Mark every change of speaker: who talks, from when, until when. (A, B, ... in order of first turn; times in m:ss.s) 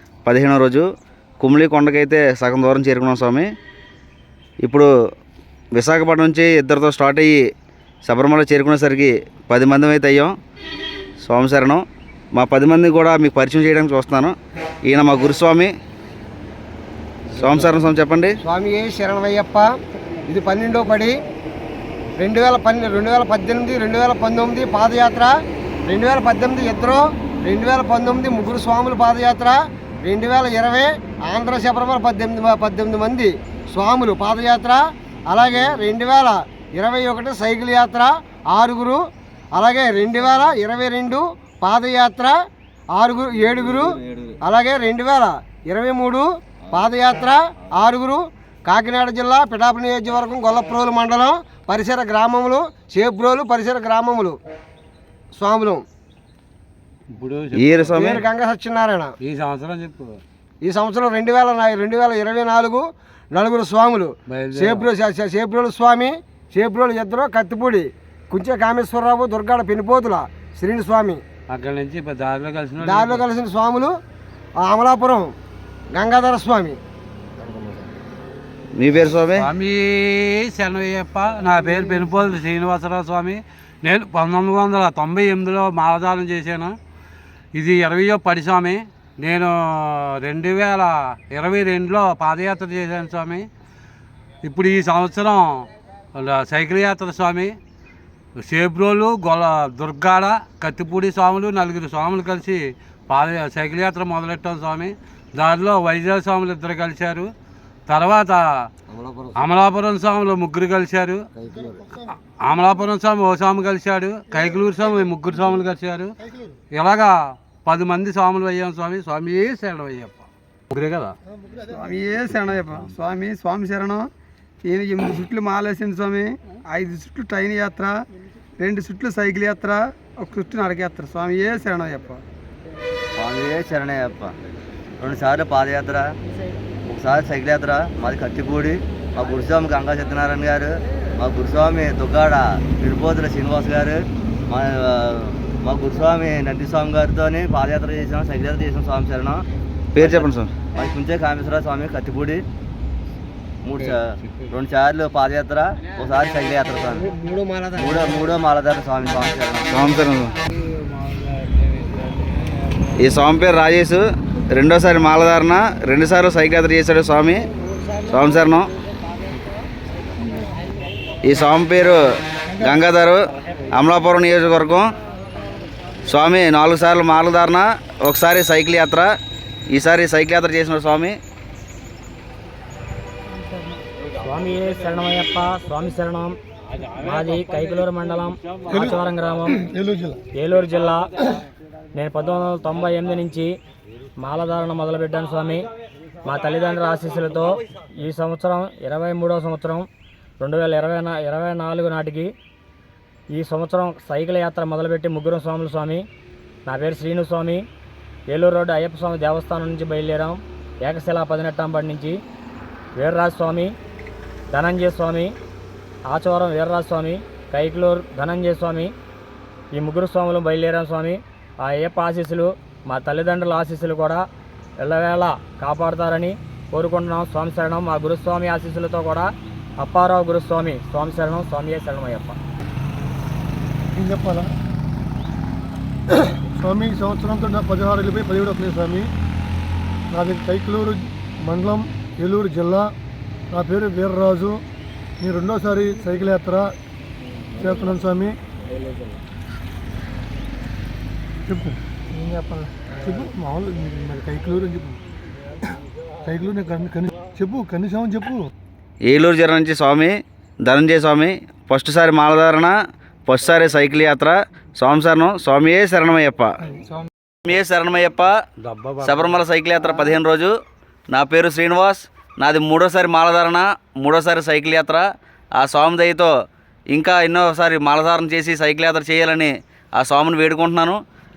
0:00.2-0:00.8 A
0:01.4-0:03.4 A
0:04.6-0:04.9 A
0:05.7-0:07.3 A
0:08.0-0:10.3 A
0:11.2-0:14.3 A
0:14.8-0:15.7 A
0:17.3-0:18.4 A
0:18.4-0:19.7 B
0:20.2-0:21.2 B
0:22.2-0:25.3 B
0:25.8-0:39.0 B
0:39.5-0:42.3 B
0:42.9-0:54.4 B
0:43.8-0:44.3 C
0:55.3-0:55.8 B
0:57.1-0:58.1 D
0:57.5-0:58.3 A
0:57.9-0:59.2 B
0:59.2-1:00.2 D
1:00.6-1:11.2 B
1:04.3-1:04.8 D
1:11.5-1:13.2 D
1:12.8-1:13.9 B
1:14.6-1:15.3 B
1:15.9-1:16.8 B
1:18.8-1:19.5 A
1:19.3-1:26.8 D
1:27.5-1:33.5 D
1:34.4-1:37.6 D
1:38.4-1:47.3 D
1:47.9-1:48.7 D
1:48.9-1:49.4 B
1:49.3-1:51.2 D
1:51.4-1:51.9 B
1:52.0-1:56.2 D
1:56.7-2:01.1 D
2:01.6-2:04.0 E
2:04.7-2:07.9 E
2:08.6-2:12.2 E
2:13.2-2:14.3 C
2:15.0-2:16.1 C
2:16.9-2:32.4 C
2:29.9-2:30.5 A
2:33.6-2:37.0 C
2:36.9-2:38.3 B
2:37.8-2:39.8 C
2:39.7-2:40.3 A
2:40.9-2:42.8 D
2:43.0-2:47.4 A
2:48.0-2:48.7 A
2:51.2-2:52.0 A
2:52.5-2:53.2 A
2:53.7-2:54.9 A
2:56.1-2:59.1 A
2:59.7-3:01.1 A
3:04.2-3:06.4 F
3:07.0-3:09.6 F
3:08.7-3:09.0 G
3:09.6-3:10.2 G
3:10.4-3:11.1 F
3:11.9-3:13.5 F
3:14.2-3:15.6 F
3:16.2-3:19.9 F
3:20.4-3:22.3 F
3:23.3-3:26.0 F
3:26.6-3:27.6 F
3:28.3-3:32.2 F
3:33.0-3:33.7 F
3:34.5-3:35.3 F
3:36.1-3:38.9 F
3:39.7-3:44.2 F
3:44.8-3:52.4 F
3:53.9-3:54.5 G
3:56.1-3:59.1 G
4:00.1-4:02.9 G
4:03.5-4:04.6 G
4:05.2-4:06.8 G
4:07.6-4:08.4 G
4:11.5-4:15.0 G
4:16.2-4:18.5 G
4:19.0-4:22.7 A
4:23.3-4:26.5 A
4:27.4-4:28.3 A
4:28.6-4:29.4 D
4:29.0-4:30.5 A
4:31.1-4:35.0 A
4:35.6-4:36.3 A
4:36.9-4:41.0 A